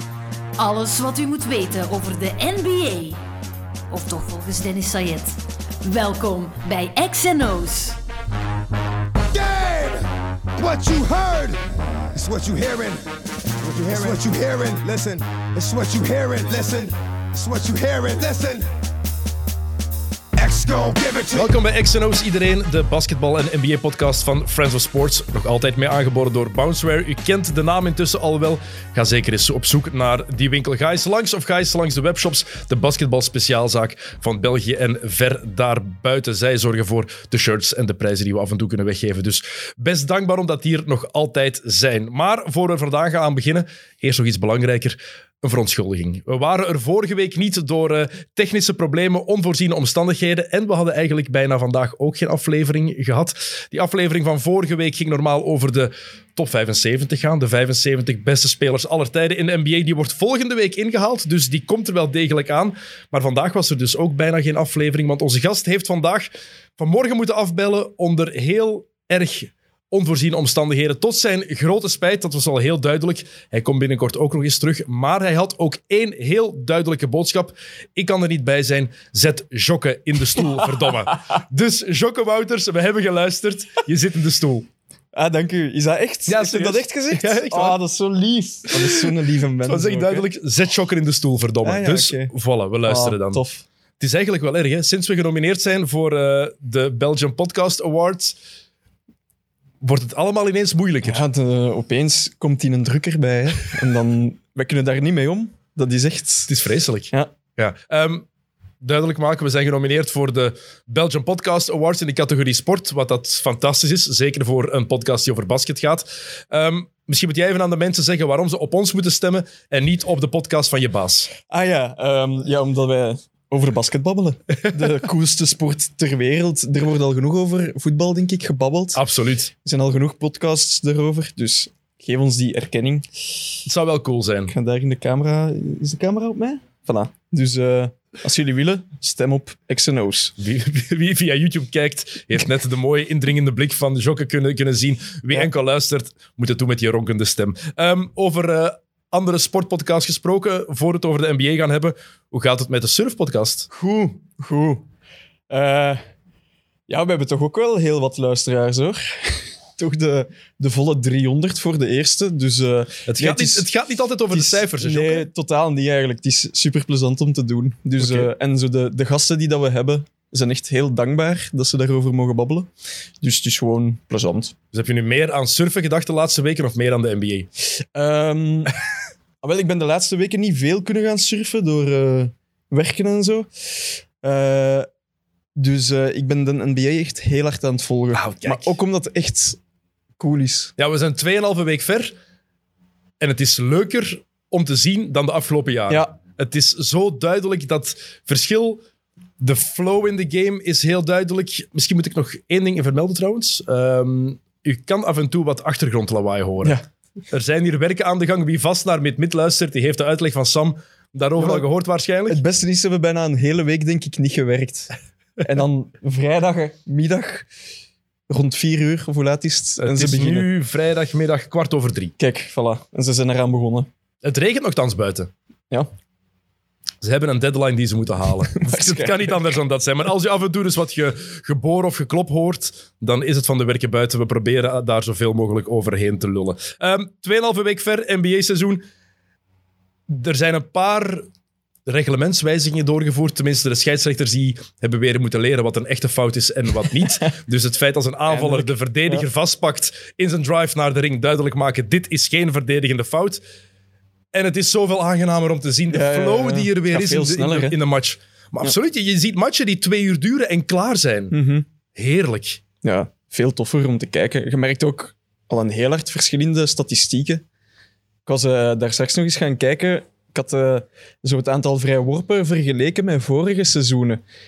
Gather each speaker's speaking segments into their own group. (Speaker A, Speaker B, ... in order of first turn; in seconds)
Speaker A: 0.6-3.2, 3.9-8.0
Speaker B: 9.3-13.0, 13.6-18.7, 20.4-21.5
Speaker C: 21.3-84.7, 86.3-87.8, 88.7-93.4, 94.0-98.4, 99.8-101.2, 106.5-108.2, 108.8-121.3, 128.9-129.5, 133.7-134.5, 140.4-153.7, 163.1-165.3, 168.0-168.3, 174.7-177.5, 188.1-188.8, 190.8-192.1, 193.2-198.8, 199.4-212.4, 219.8-222.1, 224.2-225.3, 227.0-238.8, 240.1-241.3, 241.9-253.4, 254.3-261.3, 261.9-262.6
Speaker D: 85.1-90.3, 91.6-92.3, 92.8-93.7, 101.0-106.5, 121.5-129.0, 129.6-133.1, 134.5-140.3, 153.7-154.8, 155.5-156.0, 156.9-172.7, 173.2-174.5, 177.9-178.8, 179.4-184.9, 185.6-189.6, 190.2-190.7, 195.9-196.1, 211.4-211.7, 212.3-217.5, 218.3-220.5, 222.2-223.9, 228.5-229.5, 248.3-249.3, 255.9-257.8, 261.3-261.6, 262.8-267.4, 268.3-274.2